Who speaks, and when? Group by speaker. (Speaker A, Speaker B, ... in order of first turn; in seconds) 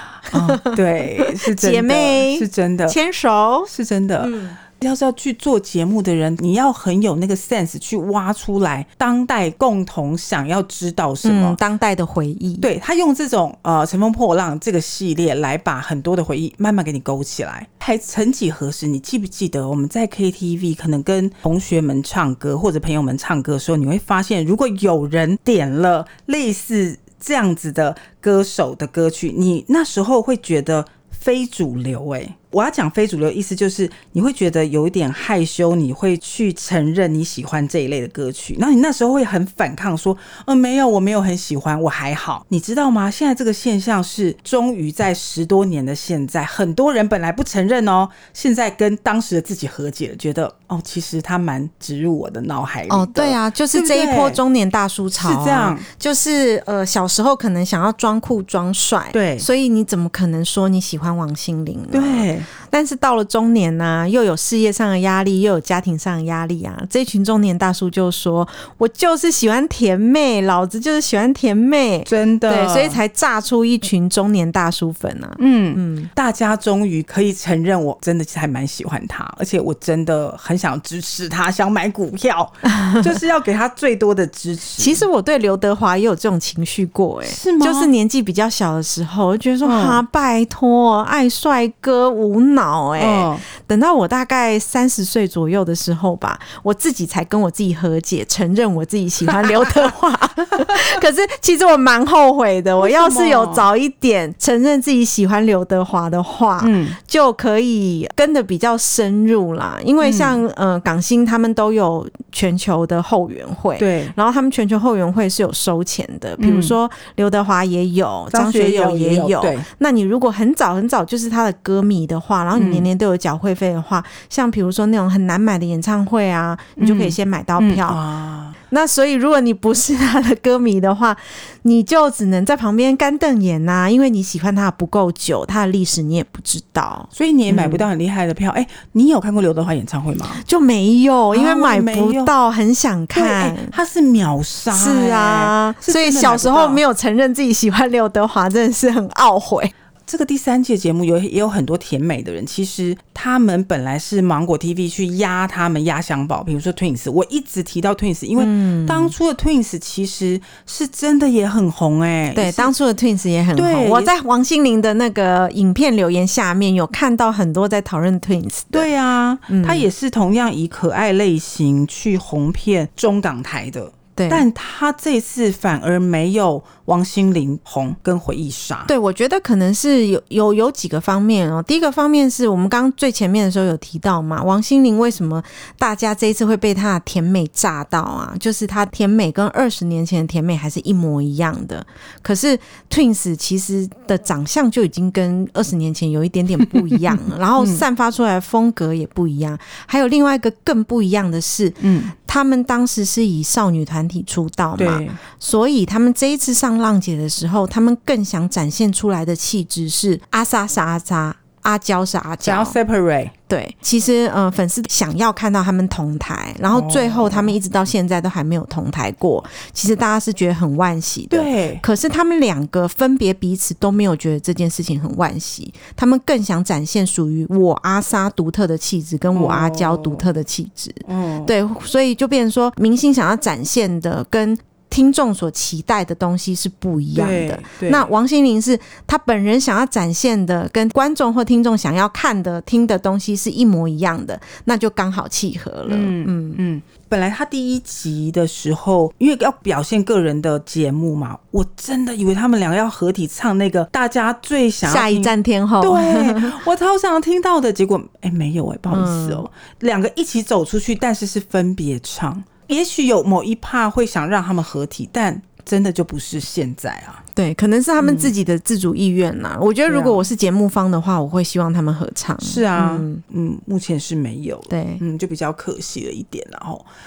Speaker A: 0.3-4.6, 11.2-12.7, 52.9-76.1, 82.7-83.2, 84.8-128.0, 128.7-137.8, 140.4-143.7, 144.7-149.7, 158.4-159.1, 162.3-168.9, 169.5-169.9, 174.2-174.4, 178.9-212.8, 213.5-246.6, 254.8-256.6, 258.9-259.4, 267.3-273.2, 274.7-275.0
Speaker B: 0.3-3.0, 3.7-11.6, 12.6-54.4, 55.2-55.9, 59.1-59.5, 61.9-62.5, 72.0-73.0, 75.4-85.0, 87.3-87.9, 89.6-90.0, 93.0-93.4, 102.8-103.7, 106.6-107.0, 110.0-110.4, 113.8-114.1, 116.4-116.8, 118.3-119.7, 122.5-122.9, 126.8-128.6, 137.1-140.4, 141.3-142.3, 143.1-146.8, 150.1-162.7, 163.6-164.1, 168.7-178.9, 197.6-197.8, 201.8-202.1, 204.8-205.2, 212.4-213.3, 216.7-217.5, 221.3-221.8, 229.3-230.3, 231.0-231.5, 237.1-238.1, 245.9-267.2, 268.0-268.3, 269.9-270.3, 272.4-276.9